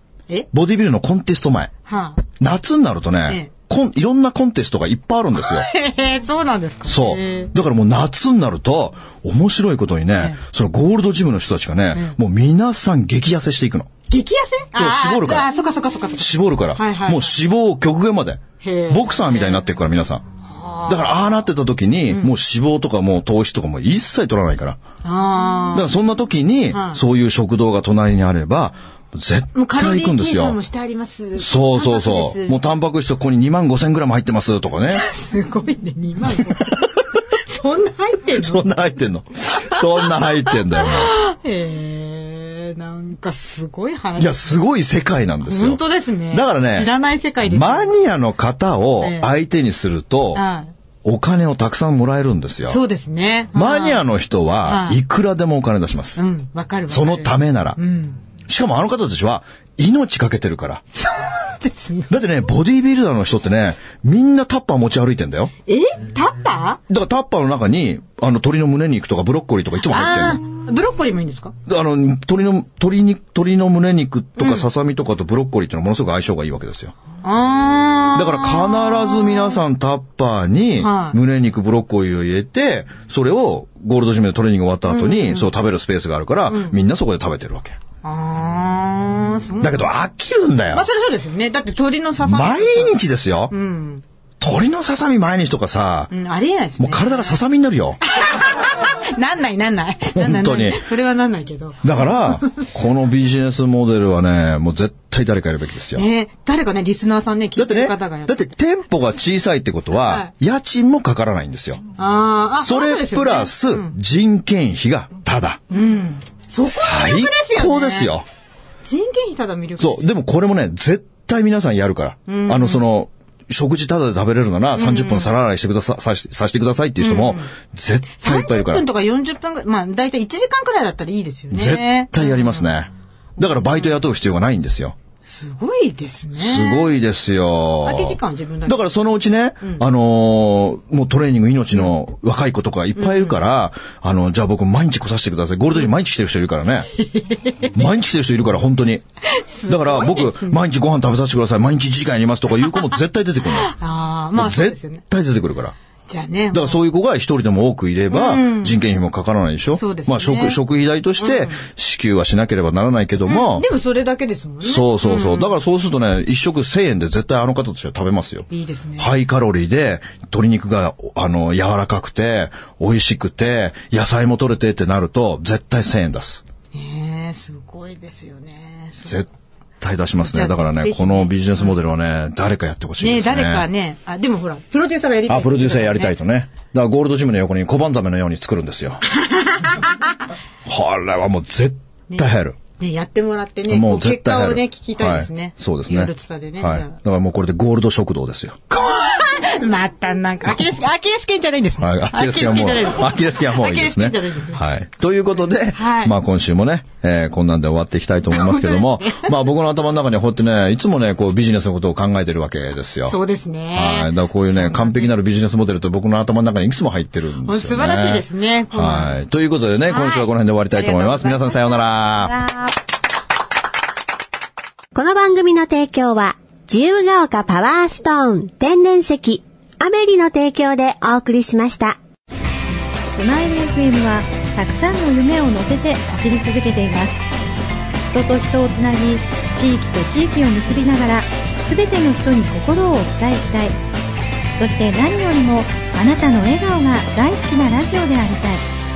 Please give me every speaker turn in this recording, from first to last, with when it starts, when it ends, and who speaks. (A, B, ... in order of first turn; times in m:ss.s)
0:00.5-0:01.7 A
0:01.9-0:02.2 B
0:02.4-0:05.7 A
0:05.4-0:07.5 B
0:06.9-0:13.9 A
0:14.1-0:17.4 B
0:14.7-0:15.5 A
0:16.2-0:20.2 A
0:18.6-0:19.7 B
0:20.4-0:21.5 B
0:20.9-0:24.8 A
0:25.0-0:25.9 B
0:25.7-0:30.6 A
0:26.7-0:27.0 B
0:29.6-0:32.7 B
0:31.4-0:35.1 A
0:34.9-0:38.7 B
0:38.3-0:41.1 A
0:39.6-0:44.6 B
0:44.2-0:50.4 A
0:45.4-0:47.9 B
0:49.0-0:49.3 B
0:50.3-0:50.7 B
0:51.0-0:52.8 A
0:52.7-0:54.0 B
0:53.5-0:56.2 A
0:54.6-0:55.0 B
0:56.2-0:58.2 B
0:56.9-0:57.8 A
0:58.5-1:00.8 A
1:00.9-1:02.1 B
1:02.1-1:05.5 A
1:05.7-1:06.8 B
1:06.9-1:10.4 A
1:09.8-1:11.5 B
1:11.7-1:16.9 A
1:14.4-1:14.7 B
1:17.2-1:19.6 B
1:18.1-1:27.8 A
1:20.8-1:21.2 B
1:24.9-1:25.5 B
1:26.5-1:26.8 B
1:28.0-1:29.9 B
1:29.6-1:30.9 A
1:30.7-1:33.0 B
1:32.2-1:33.5 A
1:33.5-1:34.0 B
1:34.4-1:36.1 A
1:36.1-1:37.4 B
1:36.8-1:38.0 A
1:38.0-1:42.6 B
1:40.1-1:40.8 A
1:41.8-1:46.1 A
1:46.0-1:48.5 B
1:47.6-1:51.8 A
1:50.0-1:50.3 B
1:52.0-1:53.9 B
1:52.6-1:55.6 A
1:55.7-1:58.2 B
1:56.6-1:58.2 A
1:58.8-2:00.1 B
1:59.8-2:08.9 A
2:02.3-2:02.8 B
2:04.8-2:05.3 B
2:07.0-2:07.5 B
2:08.2-2:12.7 B
2:11.5-2:15.0 A
2:13.4-2:13.9 B
2:15.3-2:16.9 B
2:16.4-2:26.9 A
2:17.8-2:18.9 B
2:23.0-2:23.4 B
2:27.0-2:27.7 B
2:27.7-2:29.0 A
2:29.3-2:30.6 B
2:29.6-2:33.8 A
2:33.4-2:35.0 B
2:34.3-2:35.8 A
2:36.1-2:36.8 B
2:36.5-2:43.7 A
2:38.1-2:38.8 B
2:39.7-2:40.6 B
2:41.2-2:41.6 B
2:43.3-2:45.6 B
2:44.6-2:56.4 A
2:48.5-2:49.1 B
2:56.7-2:59.2 B
2:59.8-3:03.7 A
3:00.2-3:01.7 B
3:03.0-3:06.2 B
3:05.3-3:09.0 A
3:09.2-3:09.9 B
3:10.6-3:12.6 A
3:12.1-3:17.0 B
3:13.7-3:18.6 A
3:18.7-3:24.6 B
3:21.8-3:33.2 A
3:25.8-3:26.2 B
3:28.3-3:29.4 B
3:33.0-3:35.2 B
3:33.7-3:42.4 A
3:37.4-3:39.2 B
3:39.9-3:42.7 B
3:45.0-3:52.0 C
3:53.1-3:57.2 D
3:58.1-4:03.8 D
4:04.6-4:08.6 D